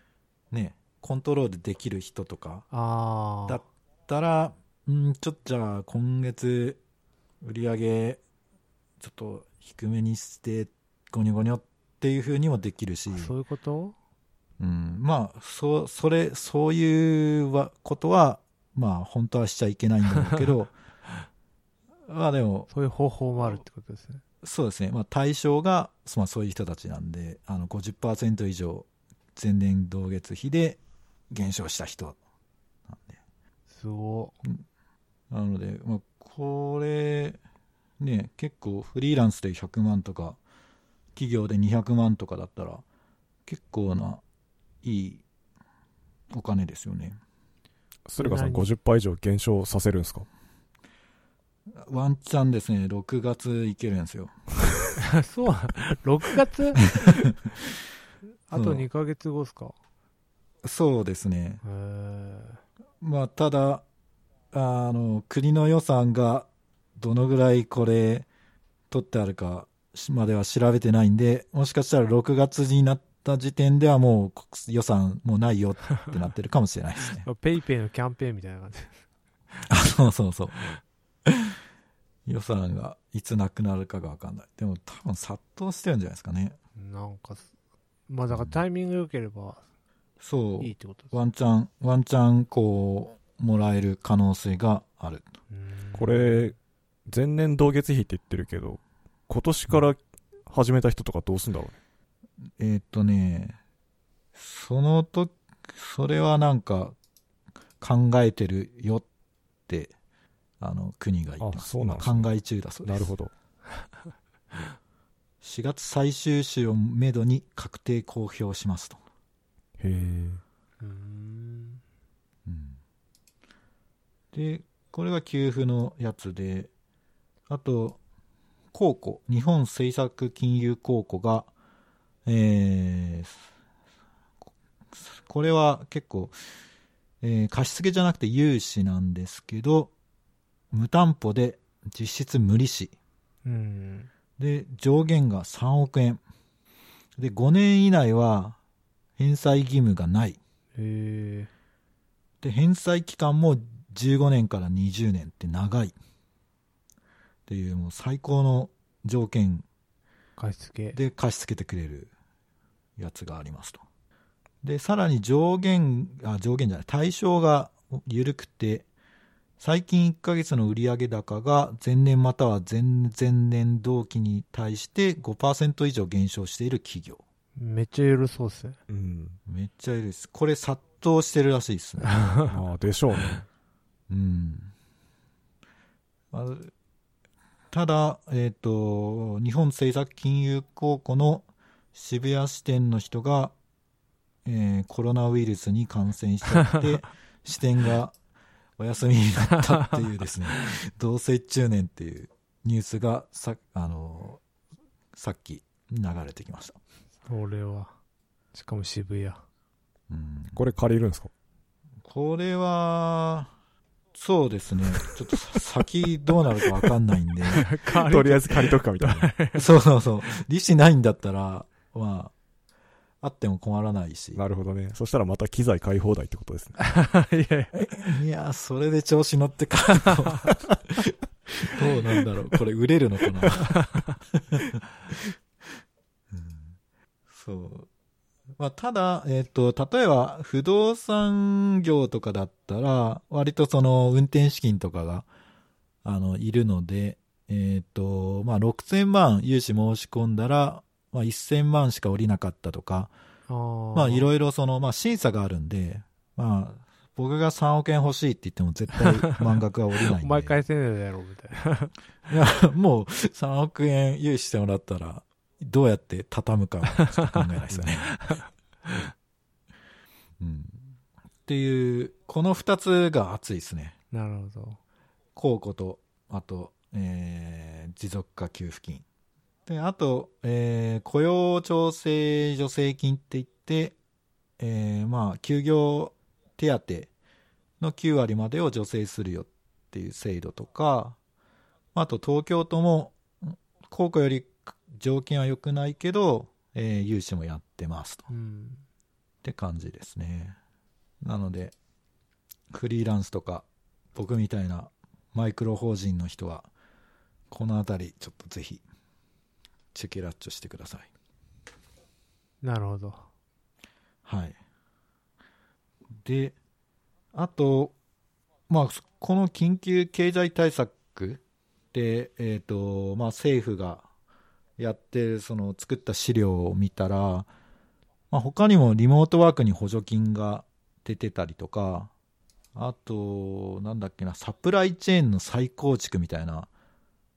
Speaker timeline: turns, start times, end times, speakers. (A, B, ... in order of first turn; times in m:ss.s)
0:00.5-0:02.7 A
0:02.7-0:03.6 B
0:03.5-0:06.8 A
0:07.4-0:08.2 A
0:09.0-0:13.3 A
0:13.1-0:14.0 B
0:14.6-0:20.7 A
0:22.1-0:22.7 A
0:22.7-0:24.2 B
0:24.4-0:30.8 A
0:31.3-0:32.2 A
0:32.9-0:33.2 A
0:33.7-0:34.4 B
0:35.3-0:37.4 A
0:38.0-0:40.4 A
0:41.2-0:42.8 A
0:43.5-0:44.2 A
0:44.8-0:45.2 A
0:46.3-0:47.2 A
0:48.1-0:50.3 C
0:48.2-0:48.7 B
0:51.8-0:54.4 A
0:55.0-0:57.3 B
0:58.5-0:59.8 B
0:58.5-0:58.9 A
1:00.6-1:01.6 A
1:01.6-1:02.6 B
1:03.0-1:03.8 A
1:04.5-1:08.3 A
1:08.9-1:17.3 A
1:17.2-1:19.0 B
1:19.7-1:20.7 A
1:21.3-1:21.6 A
1:22.3-1:26.6 A
1:26.8-1:27.5 B
1:28.1-1:29.6 B
1:30.2-1:35.3 A
1:30.6-1:31.2 B
1:35.5-1:36.5 B
1:35.9-1:36.6 C
1:37.1-1:40.0 C
1:40.5-1:41.8 C
1:42.6-1:43.6 A
1:44.3-1:47.0 A
1:47.8-1:49.0 A
1:49.7-1:49.9 A
1:50.6-1:53.1 A
1:51.4-1:52.3 C
1:52.8-1:53.3 C
1:55.4-1:59.0 A
1:59.8-2:00.4 C
2:00.8-2:01.8 B
2:02.5-2:02.8 A
2:04.3-2:06.7 A
2:07.5-2:08.0 A
2:08.7-2:11.5 A
2:12.3-2:13.4 A
2:14.9-2:16.4 A
2:17.2-2:19.9 A
2:20.7-2:22.9 A
2:23.4-2:24.1 B
2:24.4-2:26.2 A
2:27.2-2:28.6 A
2:29.2-2:30.4 A
2:30.8-2:31.5 B
2:32.4-2:36.0 A
2:37.5-2:39.6 A
2:40.4-2:41.0 B
2:40.9-2:42.1 A
2:43.0-2:43.8 A
2:44.6-2:48.9 A
2:49.6-2:57.2 A
2:57.6-2:58.8 B
2:58.9-2:59.4 C
2:59.5-3:02.3 A
3:02.1-3:02.5 B
3:02.5-3:03.4 C
3:04.1-3:04.7 A
3:06.3-3:06.7 A
3:07.7-3:13.5 A
3:14.4-3:18.2 A
3:18.8-3:24.4 A
3:25.1-3:26.8 A
3:27.3-3:27.9 B
3:28.5-3:29.4 B
3:30.1-3:30.6 A
3:30.5-3:31.3 C
3:32.0-3:33.5 A
3:34.1-3:37.7 A
3:37.5-3:39.7 B
3:37.9-3:39.3 C
3:39.6-3:42.3 A
3:43.2-3:44.4 A
3:44.4-3:46.8 C
3:46.8-3:47.7 B
3:47.7-3:51.1 A
3:51.6-3:53.8 A
3:53.7-3:54.2 B
3:54.4-3:54.8 A
3:56.3-3:56.8 A
3:57.3-3:57.9 A
3:58.6-4:05.3 A
4:06.0-4:13.1 A
4:13.5-4:14.3 B
4:13.9-4:20.6 A
4:20.1-4:21.9 B
4:22.3-4:28.2 A
4:27.1-4:27.4 B
4:28.1-4:28.4 B
4:30.4-4:34.0 A
4:34.1-4:34.8 B
4:35.4-4:39.0 A
4:39.7-4:44.0 A
4:44.6-4:47.1 A
4:47.8-4:51.2 A
4:51.9-4:58.3 A
4:58.3-4:58.8 B
4:59.4-5:00.6 A
5:01.2-5:01.8 A
5:02.7-5:06.7 A
5:07.5-5:08.8 A
5:09.9-5:11.1 A
5:12.6-5:13.3 B
5:14.2-5:14.6 A
5:16.2-5:16.6 A
5:17.3-5:18.0 A
5:18.7-5:21.4 A
5:21.9-5:24.1 A
5:24.8-5:27.5 A
5:28.3-5:32.1 A
5:32.8-5:36.7 A